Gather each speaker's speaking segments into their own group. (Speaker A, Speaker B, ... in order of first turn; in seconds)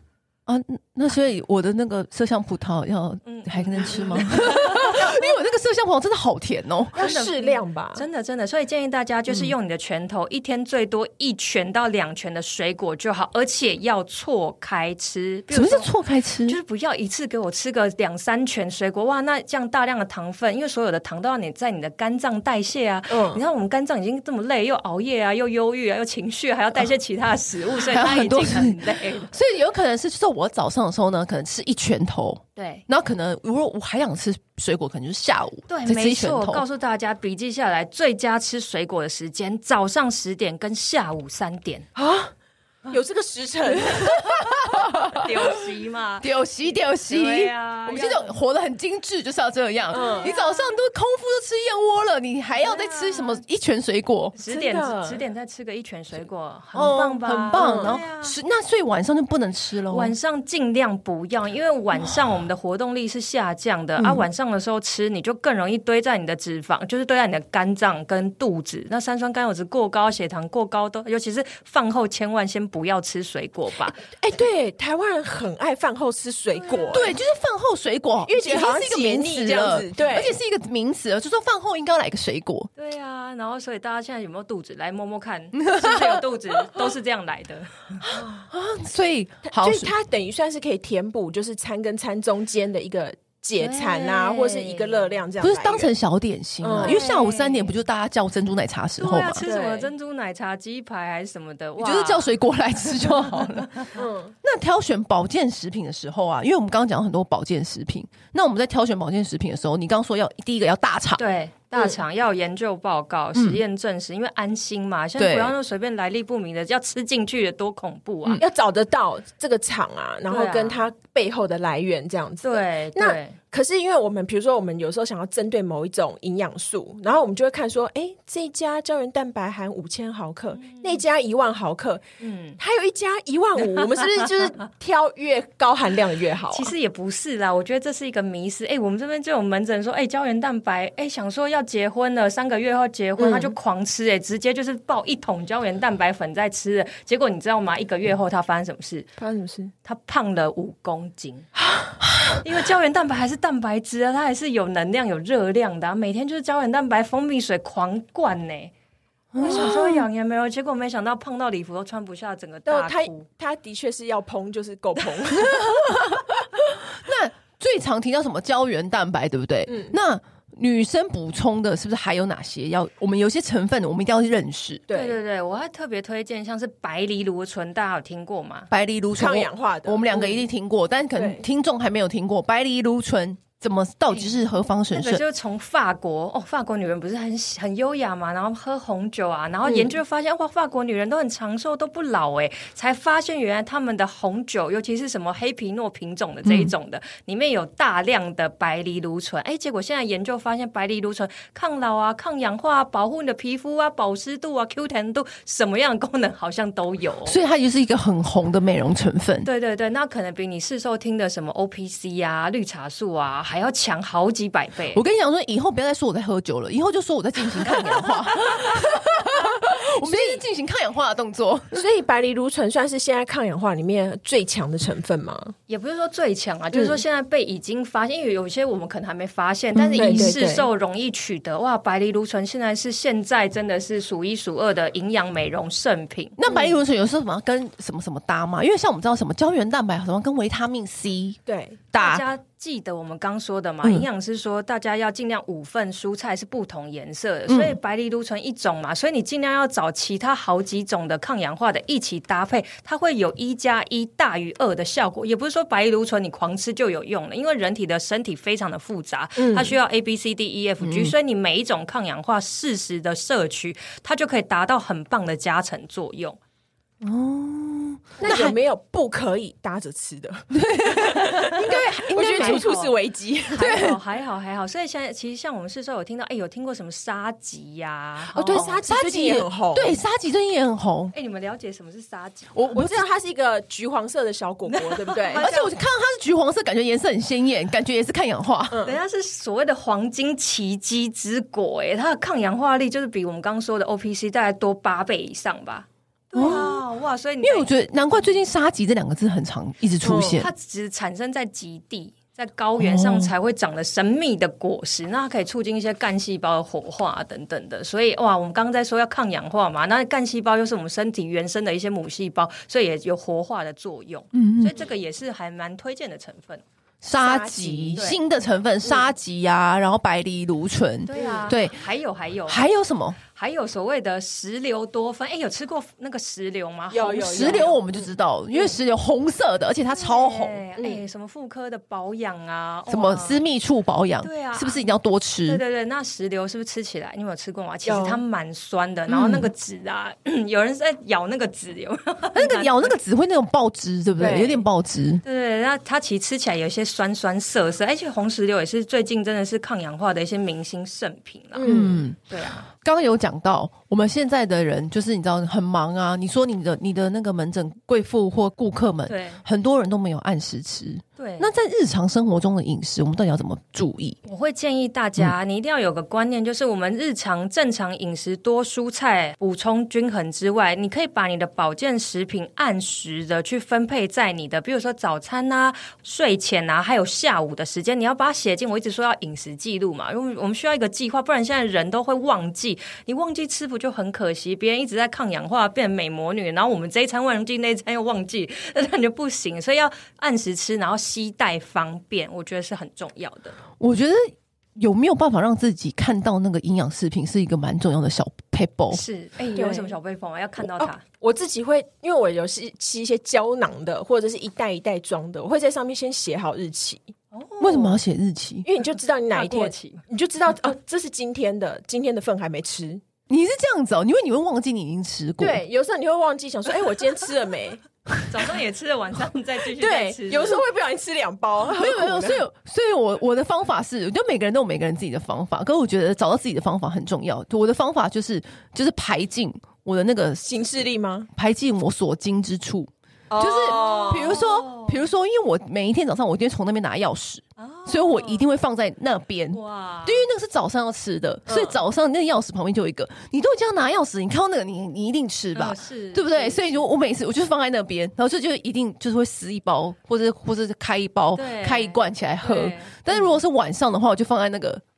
Speaker A: 0.5-7.0, 9.3-9.5, 15.5-16.6, 27.7-36.6, 43.8-45.5, 46.2-54.3, 56.7-60.1, 64.0-64.2, 76.9-82.7, 85.6-86.2, 88.0-89.9, 95.4-99.4, 101.8-103.9, 104.4-111.2, 113.3-113.6, 115.2-115.5, 159.3-160.1, 165.3-174.8, 178.7-185.2, 196.4-196.7, 207.2-209.5, 214.9-221.8, 229.7-230.3, 236.4-241.4, 241.9-242.2, 247.5-247.8, 260.8-261.1, 267.0-268.6, 270.5-272.7, 273.5-274.0, 278.5-281.1, 282.5-283.0, 285.4-288.8, 296.3-296.8, 297.4-300.5, 302.8-303.3, 314.3-314.8, 317.0-321.8, 322.5-323.2, 327.2-330.6, 332.9-335.6, 339.1-339.5, 342.3-345.2, 351.6-364.2, 393.8-399.0, 407.6-408.7, 413.3-415.6, 421.7-454.8
Speaker B: 3.2-5.3, 7.0-15.9, 16.4-29.3, 32.5-32.8, 35.7-41.9, 45.1-46.3, 47.0-48.3, 49.9-50.7, 52.5-53.4, 54.3-58.4, 59.9-74.0, 76.5-77.1, 82.8-88.0, 93.6-95.1, 96.8-97.7, 99.0-102.3, 103.0-104.0, 111.2-118.4, 120.3-120.8, 122.4-123.4, 130.5-131.0, 132.2-132.6, 133.6-134.3, 136.5-149.1, 149.8-151.5, 152.4-158.7, 159.4-163.2, 174.9-178.7, 184.9-207.4, 209.4-215.0, 225.7-236.4, 241.9-266.4, 272.1-272.9, 273.5-278.8, 281.1-282.5, 284.7-285.8, 288.8-297.7, 300.3-316.6, 321.1-322.6, 323.3-328.0, 329.9-333.4, 334.2-334.9, 335.4-342.9, 345.2-352.6, 359.1-359.4, 361.2-361.5, 364.2-393.6, 398.9-401.0, 407.3-408.0, 409.3-410.0, 418.3-420.6, 433.4-435.1, 437.6-438.4, 439.5-440.3, 445.5-446.9, 451.4-453.3
Speaker C: 7.0-8.0, 23.1-23.4, 41.9-42.3, 42.9-44.4, 49.9-50.3, 54.5-55.2, 57.5-58.0, 74.0-77.1, 78.2-80.3, 88.1-88.5, 89.4-95.9, 96.6-97.0, 99.4-99.9, 104.0-104.3, 118.4-132.0, 132.6-136.7, 143.2-143.5, 149.2-149.7, 159.4-159.7, 162.7-166.1, 169.7-169.9, 174.9-175.2, 179.2-180.4, 181.1-181.4, 189.7-189.9, 219.4-220.4, 221.7-225.5, 226.7-227.0, 230.0-230.7, 236.4-236.7, 241.5-241.8, 259.4-259.8, 268.2-273.8, 278.3-280.0, 282.7-285.5, 288.7-289.0, 300.0-300.4, 317.1-318.1, 321.1-321.5, 326.9-327.7, 330.8-331.0, 337.8-338.2, 344.2-344.6, 351.6-352.0, 399.5-399.9, 401.2-407.1, 408.6-413.0, 415.4-417.8, 419.8-422.4, 430.4-431.3, 433.3-434.4, 441.5-441.8